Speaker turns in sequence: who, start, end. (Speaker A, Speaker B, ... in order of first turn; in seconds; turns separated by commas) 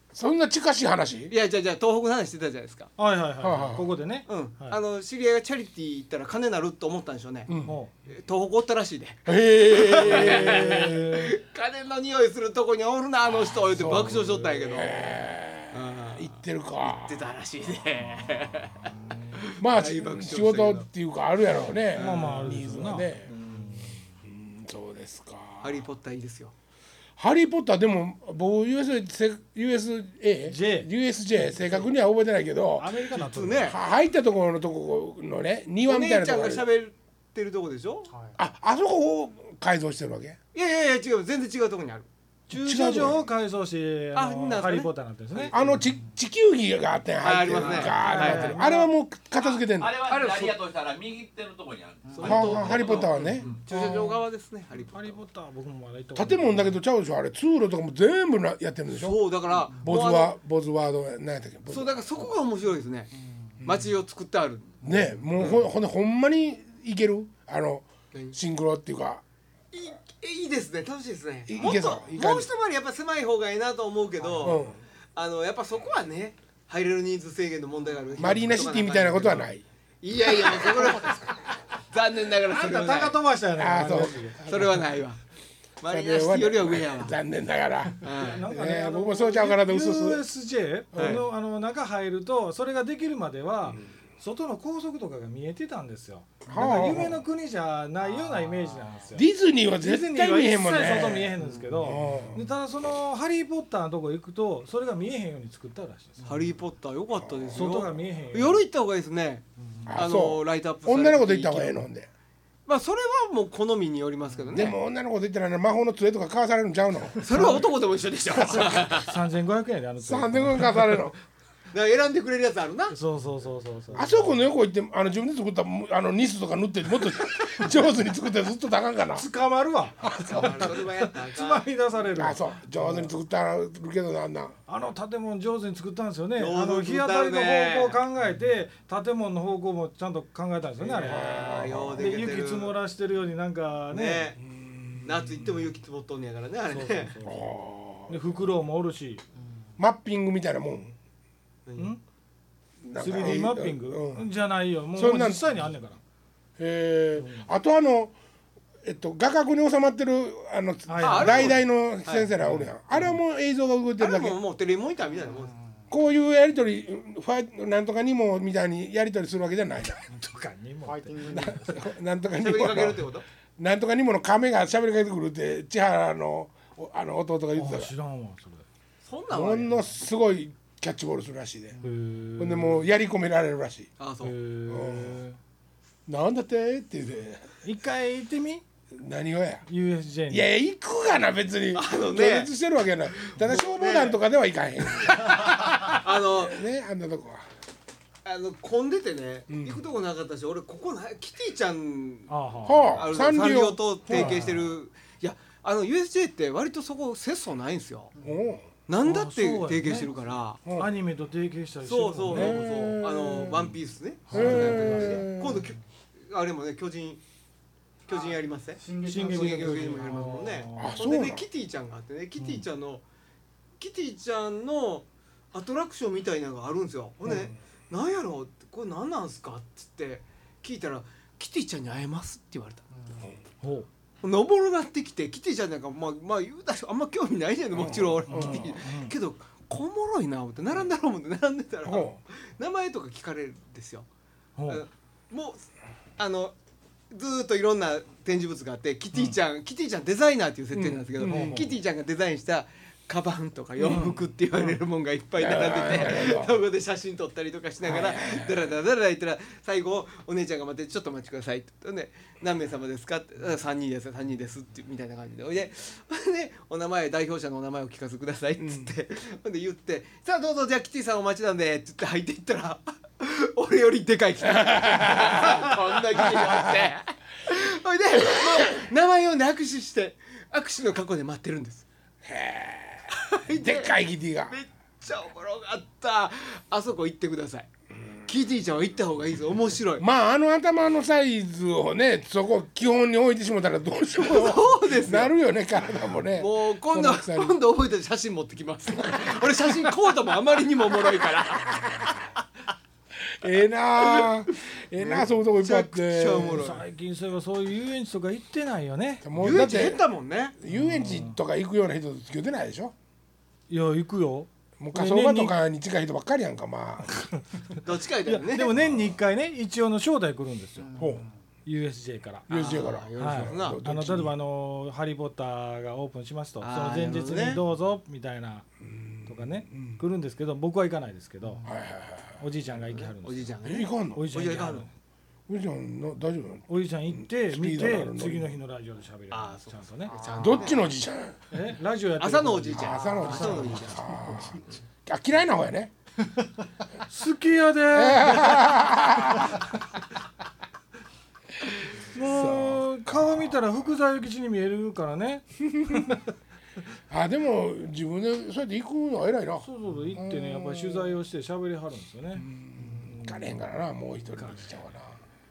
Speaker A: 0.1-1.3, Speaker B: 1.3-2.9, Speaker C: 3.0-4.8, Speaker A: 3.4-3.9, Speaker B: 4.3-7.5, Speaker A: 7.5-7.8, Speaker C: 7.7-7.9, Speaker B: 8.1-15.1, Speaker A: 9.3-11.0, Speaker C: 10.0-11.4, Speaker A: 13.7-17.2, Speaker B: 15.7-20.9, Speaker C: 18.4-19.4, Speaker A: 19.6-23.3, Speaker C: 21.9-24.1, Speaker B: 21.9-22.6, Speaker A: 24.2-25.9, Speaker B: 25.6-26.5, Speaker A: 27.2-32.9, Speaker C: 30.5-31.9, Speaker C: 32.8-33.7, Speaker B: 33.1-33.8, Speaker A: 33.7-36.7, Speaker B: 35.9-38.1, Speaker D: 38.1-38.4, Speaker A: 38.4-40.4, Speaker B: 40.5-42.1, Speaker C: 42.5-45.8, Speaker A: 42.5-43.2, Speaker B: 44.1-45.5, Speaker A: 45.5-49.9, Speaker D: 45.9-46.2, Speaker B: 47.2-48.6, Speaker C: 47.7-48.9, Speaker E: 49.4-53.6, Speaker B: 50.0-50.6, Speaker D: 52.1-52.5, Speaker B: 52.1-55.2, Speaker A: 52.2-53.5, Speaker C: 53.7-54.1, Speaker C: 54.9-56.8, Speaker A: 56.1-62.3, Speaker B: 58.9-60.3, Speaker B: 61.7-63.1, Speaker B: 63.6-64.8, Speaker A: 64.8-69.2, Speaker B: 65.4-65.7, Speaker B: 68.1-68.4, Speaker B: 69.7-79.5, Speaker A: 71.5-72.5, Speaker D: 74.2-74.6, Speaker A: 74.4-74.8, Speaker A: 78.2-79.6, Speaker B: 80.0-83.2, Speaker A: 80.5-81.0, Speaker C: 82.5-84.8, Speaker A: 83.5-84.8, Speaker B: 84.4-85.2, Speaker B: 85.8-87.2, Speaker A: 85.9-90.2, Speaker B: 88.0-88.5, Speaker C: 88.2-99.3, Speaker A: 90.9-91.2, Speaker B: 91.0-91.3, Speaker A: 96.5-97.2, Speaker D: 98.1-99.0, Speaker A: 99.1-102.5, Speaker C: 99.8-106.3, Speaker D: 101.4-102.3, Speaker B: 106.2-111.8, Speaker A: 107.2-107.7, Speaker C: 107.5-108.6, Speaker D: 109.6-109.9, Speaker A: 109.9-112.1, Speaker B: 112.7-114.8, Speaker A: 114.5-117.6, Speaker B: 117.2-119.2, Speaker C: 117.3-117.7, Speaker C: 118.7-121.0, Speaker A: 120.0-121.2, Speaker B: 121.7-123.0, Speaker C: 122.9-124.4, Speaker A: 124.0-129.3, Speaker C: 129.2-133.1, Speaker A: 130.0-130.8, Speaker B: 130.3-131.7, Speaker A: 132.1-134.6, Speaker C: 134.7-144.3, Speaker B: 136.4-138.0, Speaker B: 140.8-142.8, Speaker A: 141.0-142.1, Speaker B: 143.9-144.4, Speaker A: 144.4-145.4, Speaker B: 145.0-147.2, Speaker C: 146.7-147.4, Speaker A: 147.2-148.4, Speaker C: 148.1-149.2, Speaker A: 149.8-150.9, Speaker B: 151.7-151.9, Speaker A: 152.8-154.3, Speaker C: 153.0-156.0, Speaker A: 154.9-155.5, Speaker A: 156.6-158.1, Speaker C: 157.2-157.5, Speaker A: 158.8-164.4, Speaker C: 160.9-161.6, Speaker B: 161.0-162.3, Speaker C: 162.4-163.2, Speaker B: 164.0-165.5, Speaker D: 165.3-165.8, Speaker A: 165.9-170.0, Speaker C: 170.1-171.4, Speaker D: 170.9-171.9, Speaker A: 171.3-173.1, Speaker B: 172.4-173.2, Speaker A: 173.6-177.9, Speaker C: 177.6-178.6, Speaker B: 179.1-179.8, Speaker A: 179.3-181.8, Speaker C: 181.8-182.8, Speaker A: 182.4-183.9, Speaker B: 184.0-184.3, Speaker C: 184.2-185.4, Speaker A: 184.7-185.2, Speaker A: 186.1-187.6, Speaker C: 187.6-188.6, Speaker A: 188.9-189.7, Speaker C: 189.7-190.5, Speaker A: 190.3-197.5, Speaker B: 191.7-192.5, Speaker B: 193.1-194.2, Speaker B: 195.0-196.6, Speaker B: 198.2-202.3, Speaker A: 199.5-199.8, Speaker C: 202.3-203.0, Speaker A: 202.7-204.4, Speaker B: 202.9-208.1, Speaker C: 204.1-204.7, Speaker D: 208.2-208.6, Speaker A: 208.2-208.6, Speaker B: 208.9-210.6, Speaker C: 209.0-210.1, Speaker A: 210.7-210.9, Speaker C: 210.7-212.6, Speaker B: 211.8-217.2, Speaker A: 212.3-213.7, Speaker C: 214.3-215.2, Speaker A: 214.3-215.6, Speaker B: 218.1-223.0, Speaker D: 218.1-220.7, Speaker C: 219.0-221.0, Speaker A: 220.8-221.5, Speaker C: 222.4-222.6, Speaker B: 223.8-232.8, Speaker D: 233.0-233.3, Speaker C: 233.6-233.9, Speaker B: 234.2-244.1, Speaker A: 237.7-238.8, Speaker C: 238.3-239.2, Speaker A: 241.9-242.2, Speaker C: 244.6-244.8, Speaker B: 244.7-245.7, Speaker B: 246.2-246.6, Speaker B: 247.1-281.9, Speaker A: 250.7-251.7, Speaker C: 251.2-251.7, Speaker C: 253.8-254.2, Speaker A: 255.4-256.6, Speaker A: 257.8-258.6, Speaker A: 268.6-268.9, Speaker A: 274.5-276.9, Speaker A: 282.2-284.6, Speaker B: 283.1-284.0, Speaker B: 284.5-287.7, Speaker B: 288.3-290.1, Speaker A: 290.0-297.6, Speaker B: 294.2-295.3, Speaker B: 296.4-302.1, Speaker A: 301.4-302.2, Speaker A: 303.3-306.6, Speaker B: 304.0-304.3, Speaker B: 305.0-306.8, Speaker C: 306.4-309.3, Speaker A: 309.2-310.0, Speaker B: 309.4-310.6, Speaker A: 310.6-312.9, Speaker C: 310.7-311.4, Speaker C: 313.7-315.6, Speaker A: 314.8-317.3, Speaker B: 317.8-318.7, Speaker C: 318.3-320.9, Speaker A: 318.8-319.1, Speaker D: 320.8-321.3, Speaker A: 321.0-321.2, Speaker C: 321.7-322.5, Speaker A: 322.5-324.4, Speaker B: 322.5-323.8, Speaker C: 323.2-328.7, Speaker B: 326.6-327.6, Speaker A: 328.8-330.0, Speaker C: 329.3-331.6, Speaker D: 331.4-331.7, Speaker A: 331.6-332.4, Speaker C: 332.4-333.5, Speaker B: 332.9-334.9, Speaker A: 333.6-334.3, Speaker C: 334.1-334.9, Speaker A: 335.5-338.5, Speaker C: 336.7-340.1, Speaker B: 339.3-340.8, Speaker D: 340.1-340.5, Speaker A: 340.4-341.4, Speaker C: 341.5-344.1, Speaker B: 342.2-344.7, Speaker A: 342.7-345.9, Speaker C: 347.1-348.9, Speaker A: 347.9-349.6, Speaker C: 352.1-356.2, Speaker A: 352.1-353.6, Speaker A: 355.6-356.2, Speaker A: 357.1-361.2, Speaker C: 359.6-362.5, Speaker A: 362.4-365.2, Speaker D: 362.8-363.1, Speaker C: 363.1-363.4, Speaker C: 364.4-364.8